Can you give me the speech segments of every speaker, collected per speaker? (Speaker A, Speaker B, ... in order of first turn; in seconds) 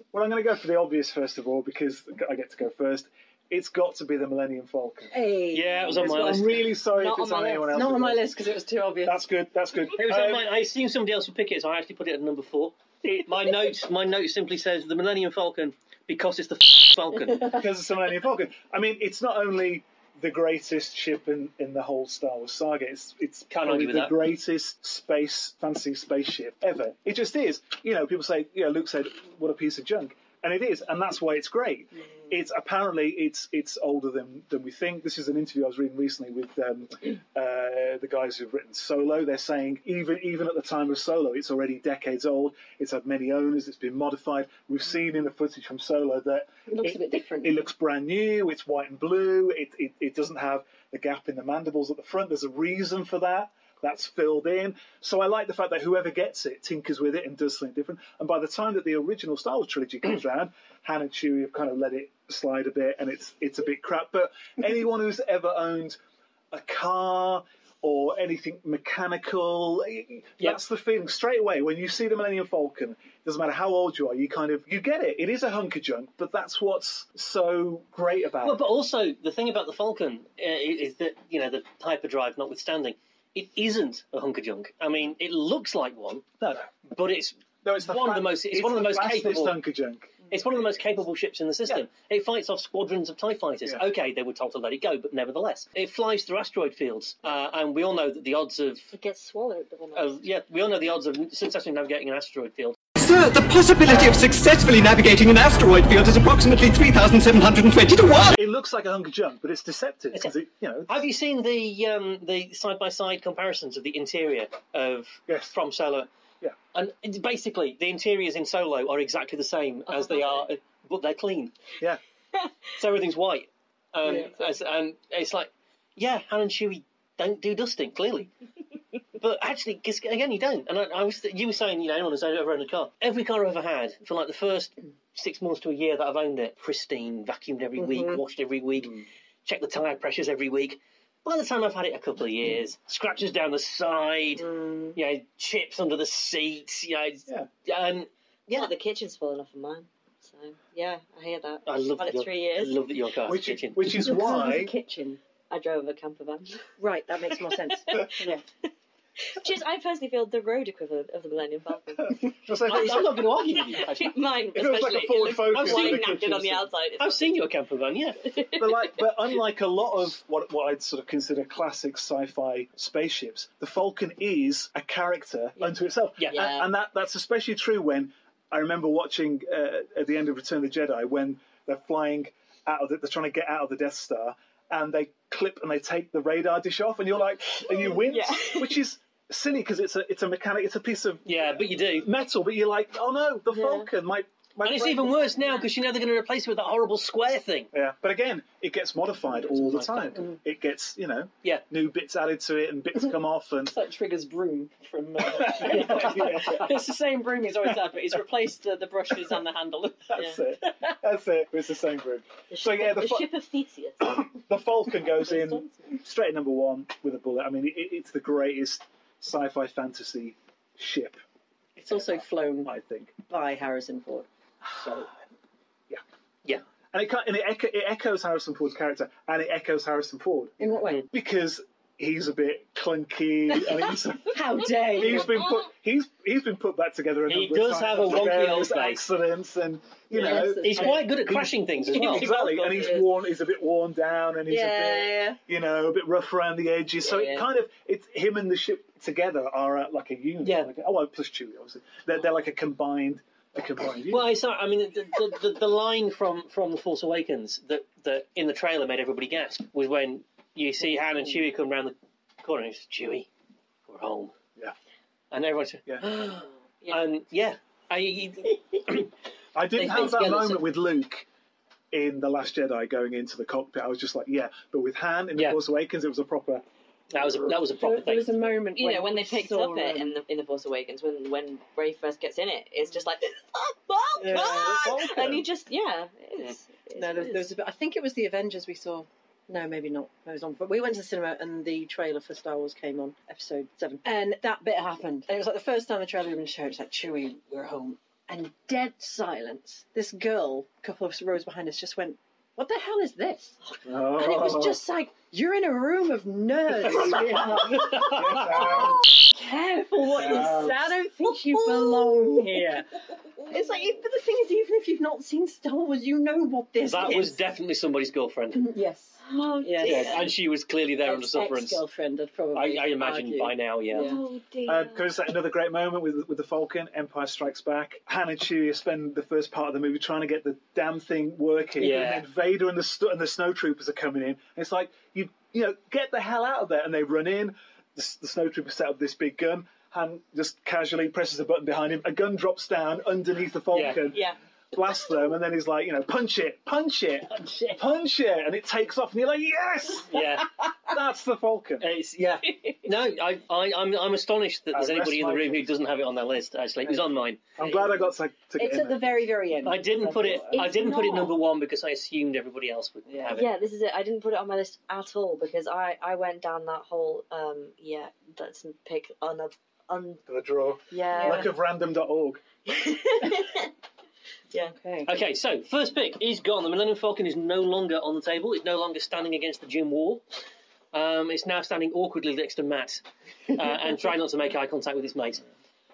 Speaker A: 0.1-5.2, 5.9-8.3, 9.1-10.5, 17.4-66.0, 66.5-78.6, 86.4-86.7, 87.6-90.2, 108.4-111.0, 115.3-115.5, 153.2-154.7, 162.1-163.2, 164.5-166.4, 168.5-195.4, 197.7-203.8, 205.2-206.7, 210.1-213.3, 214.0-221.2, 221.9-223.1, 224.7-225.1, 226.9-230.6, 231.1-254.3, 269.6-271.3, 271.9-276.6, 284.4-285.4, 303.9-304.8, 306.8-309.0, 310.0-310.9, 324.7-350.2, 350.9-351.9, 354.7-355.6, 357.6-359.0, 370.3-372.4
Speaker B: 5.1-6.5, 7.7-9.2, 46.7-47.7, 98.9-100.1, 119.9-120.5, 137.8-138.2, 144.4-145.0, 153.9-155.2, 156.8-158.4, 203.7-210.9, 221.8-222.8, 223.3-224.3, 230.6-231.1, 234.2-235.4, 240.1-241.1, 241.9-242.9, 244.5-245.4, 277.5-280.2, 284.2-284.9, 287.0-303.6, 304.1-312.9, 313.5-317.4, 318.5-320.3, 321.0-324.2, 358.6-361.3, 363.1-363.4, 371.1-371.5, 374.8-375.1
Speaker C: 5.5-6.6, 9.9-17.6, 23.5-24.2, 78.4-86.2, 86.9-89.6, 90.3-98.9, 99.9-102.8, 110.9-116.1, 116.7-121.5, 122.8-128.3, 129.2-148.7, 151.7-154.1, 162.7-164.2, 165.5-168.3, 176.2-176.5, 191.2-192.1, 194.6-197.7, 199.4-200.3, 237.3-239.0, 240.2-242.3, 250.4-250.7, 254.1-263.3, 263.9-264.4, 265.3-269.1, 275.4-275.6, 277.1-278.4, 306.9-308.8, 316.8-318.7, 319.8-321.8, 322.5-324.1, 331.8-332.3, 343.7-344.1, 347.4-347.8, 350.1-350.5, 351.8-357.4, 359.6-363.5, 375.1-380.2, 380.9-385.4
Speaker D: 6.9-7.9, 148.5-152.8, 155.5-156.6, 157.5-158.3, 159.3-163.0, 163.7-167.3, 168.2-169.0, 176.3-176.7, 187.7-188.8, 193.5-193.9, 212.5-214.3, 215.2-215.7, 242.0-243.1, 247.1-247.4, 269.8-270.6, 278.8-287.5, 319.2-320.3, 323.9-325.1, 363.3-370.2, 370.9-371.5, 372.7-373.7
Speaker E: 103.0-108.4